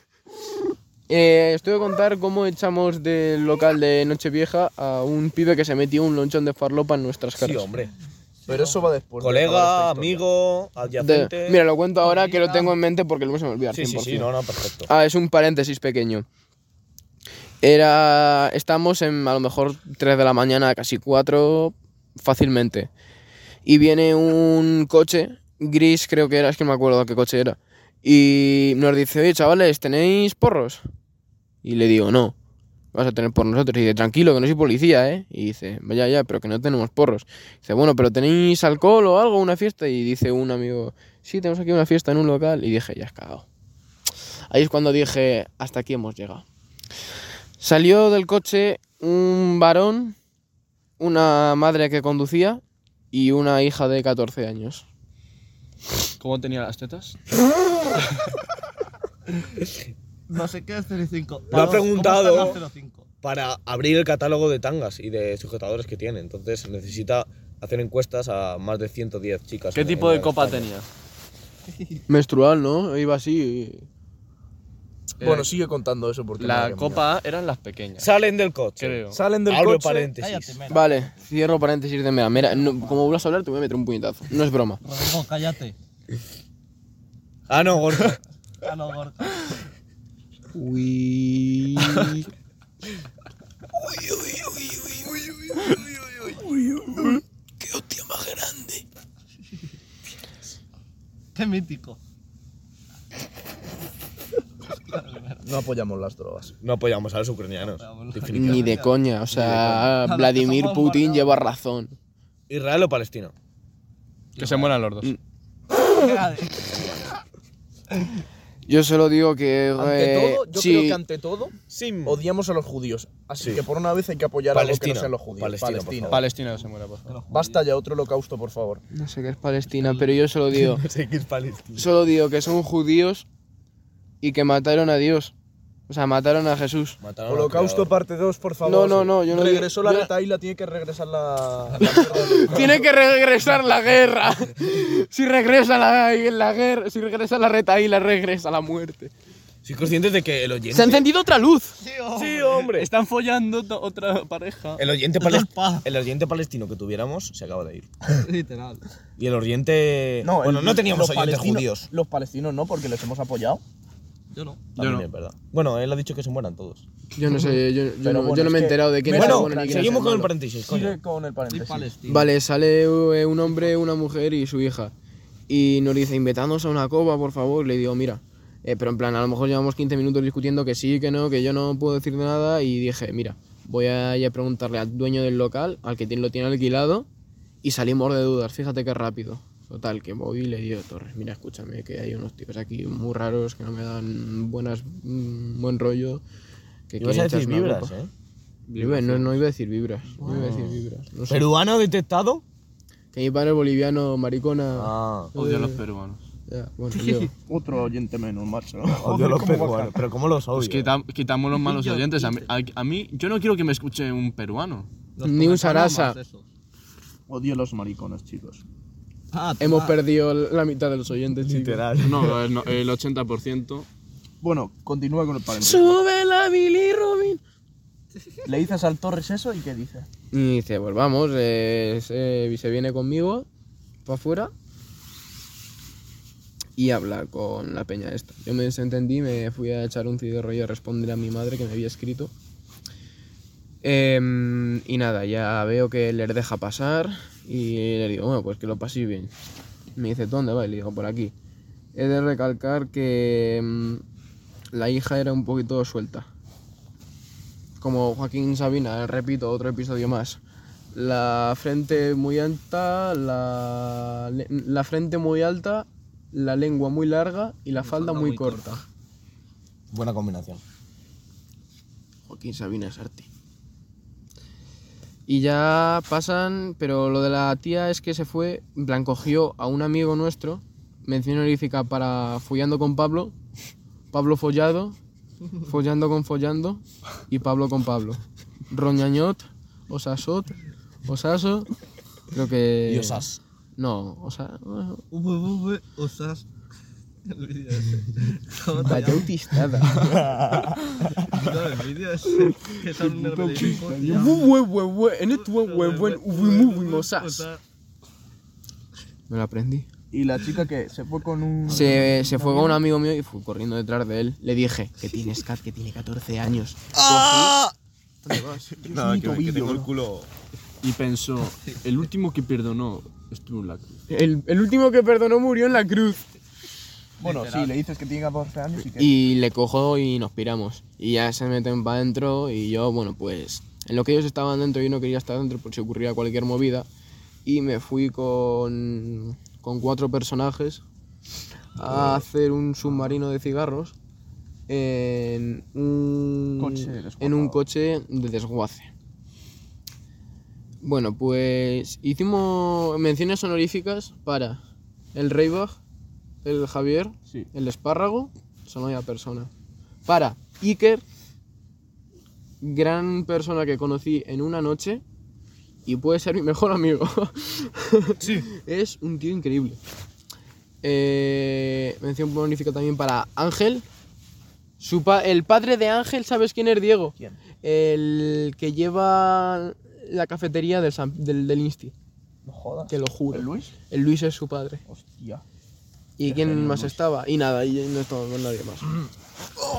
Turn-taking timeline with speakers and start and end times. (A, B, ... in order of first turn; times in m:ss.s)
0:01.1-0:07.7 A
0:07.4-0:07.9 B
0:08.5-0:10.2 C
0:09.2-0:11.6 B
0:11.0-0:14.3 A
0:12.1-0:12.7 D
0:13.7-0:14.9 B
0:14.8-0:16.2 A
0:17.6-0:22.9 A
0:23.6-0:30.8 A
0:31.6-0:32.3 A
0:32.9-0:43.4 A
0:44.5-0:46.4 A
0:47.6-0:50.2 A
0:51.0-0:54.8 A
0:56.2-0:57.2 E
1:00.3-1:03.0 D
1:01.5-1:02.6 B
1:03.2-1:10.7 B
1:09.7-1:10.9 E
1:12.1-1:13.8 A
1:15.2-1:15.5 E
1:15.2-1:17.0 C
1:16.4-1:18.1 E
1:18.0-1:20.6 B
1:18.8-1:19.2 E
1:19.1-1:20.1 C
1:20.2-1:21.3 D
1:20.7-1:24.8 A
1:22.4-1:23.0 D
1:24.8-1:25.7 D
1:27.5-1:28.2 B
1:28.6-1:29.5 D
1:30.5-1:32.3 A
1:34.4-1:34.9 A
1:36.4-1:37.2 C
1:37.6-1:38.8 A
1:41.3-1:42.0 D
1:44.9-1:45.4 D
1:45.4-1:46.5 C
1:46.6-1:48.7 B
1:47.7-1:48.9 D
1:48.3-1:51.9 A
1:49.3-1:49.9 B
1:50.0-1:51.4 D
1:52.5-1:53.3 B
1:54.4-1:54.7 D
1:54.4-1:55.1 E
1:55.9-1:56.7 D
1:56.7-1:57.1 B
1:58.7-2:01.0 A
1:59.8-2:06.2 C
2:01.7-2:02.2 B
2:04.5-2:06.3 B
2:06.1-2:07.2 E
2:07.1-2:07.6 D
2:07.3-2:08.8 C
2:08.9-2:10.8 A
2:09.7-2:10.2 D
2:10.5-2:11.9 B
2:11.7-2:13.2 A
2:14.2-2:15.3 A
2:15.9-2:17.0 A
2:17.0-2:17.9 B
2:17.3-2:22.8 C
2:18.6-2:20.1 A
2:21.8-2:29.1 A
2:29.6-2:31.1 B
2:30.7-2:31.7 A
2:31.8-2:32.6 D
2:32.1-2:32.9 B
2:32.6-2:34.8 E
2:34.8-2:37.9 B
2:35.2-2:35.8 D
2:38.2-2:38.8 D
2:39.2-2:41.9 B
2:40.2-2:43.6 C
2:44.3-2:44.7 D
2:44.8-2:46.8 B
2:44.8-2:45.1 E
2:47.2-2:50.3 A
2:48.0-2:51.9 C
2:49.1-2:51.0 B
2:51.5-2:52.3 D
2:52.0-2:54.9 A
2:55.5-3:07.1 A
3:07.6-3:16.2 A
3:16.9-3:17.9 A
3:17.0-3:18.1 B
3:18.7-3:19.4 E
3:18.8-3:21.5 A
3:20.2-3:22.4 B
3:23.1-3:25.8 A
3:24.7-3:25.3 B
3:25.3-3:26.2 E
3:26.5-3:27.3 A
3:27.0-3:27.3 D
3:27.5-3:30.0 C
3:29.0-3:30.9 B
3:30.5-3:34.9 E
3:31.5-3:32.5 D
3:35.2-3:36.4 D
3:35.2-3:36.2 A
3:37.3-3:38.6 C
3:39.3-3:40.0 D
3:39.6-3:41.8 A
3:41.4-3:42.4 B
3:42.0-3:43.9 E
3:44.4-3:46.0 C
3:45.6-3:47.4 A
3:48.4-3:50.1 C
3:50.3-3:53.5 A
3:54.0-3:54.5 A
3:56.8-4:02.3 A
4:03.8-4:09.3 A
4:10.0-4:11.3 A
4:11.9-4:14.0 A
4:14.7-4:16.3 A
4:17.8-4:20.4 A
4:20.9-4:28.8 A
4:27.8-4:28.8 D
4:29.9-4:30.6 B
4:32.3-4:33.3 A
4:35.3-4:43.3 A
4:44.1-4:45.0 A
4:45.6-4:51.7 A
4:52.3-4:55.0 A
4:52.8-4:53.4 B
4:55.1-4:56.4 D
4:57.2-4:59.6 D
4:58.8-5:00.1 A
5:01.3-5:04.4 D
5:02.7-5:04.4 C
5:04.1-5:07.5 A
5:05.3-5:07.6 D
5:09.3-5:09.9 A
5:10.1-5:12.1 C
5:11.7-5:17.6 A
5:12.0-5:12.3 D
5:16.9-5:17.6 B
5:18.2-5:19.0 A
5:18.8-5:20.3 B
5:18.9-5:19.9 C
5:20.8-5:23.9 E
5:24.1-5:26.3 A
5:27.2-5:29.1 C
5:27.2-5:27.7 D
5:29.0-5:36.9 A
5:37.4-5:40.8 A
5:41.8-5:43.9 A
5:44.7-5:48.9 A
5:46.6-5:47.6 C
5:50.8-5:54.6 A
5:55.1-5:55.8 A
5:56.4-5:59.5 A
6:00.0-6:01.0 A
6:02.6-6:05.0 A
6:05.8-6:09.8 A
6:10.8-6:13.8 A
6:14.8-6:21.9 A
6:22.4-6:23.7 C
6:22.9-6:24.8 A
6:24.9-6:25.4 C
6:26.2-6:29.0 A
6:26.3-6:26.9 B
6:26.3-6:26.8 C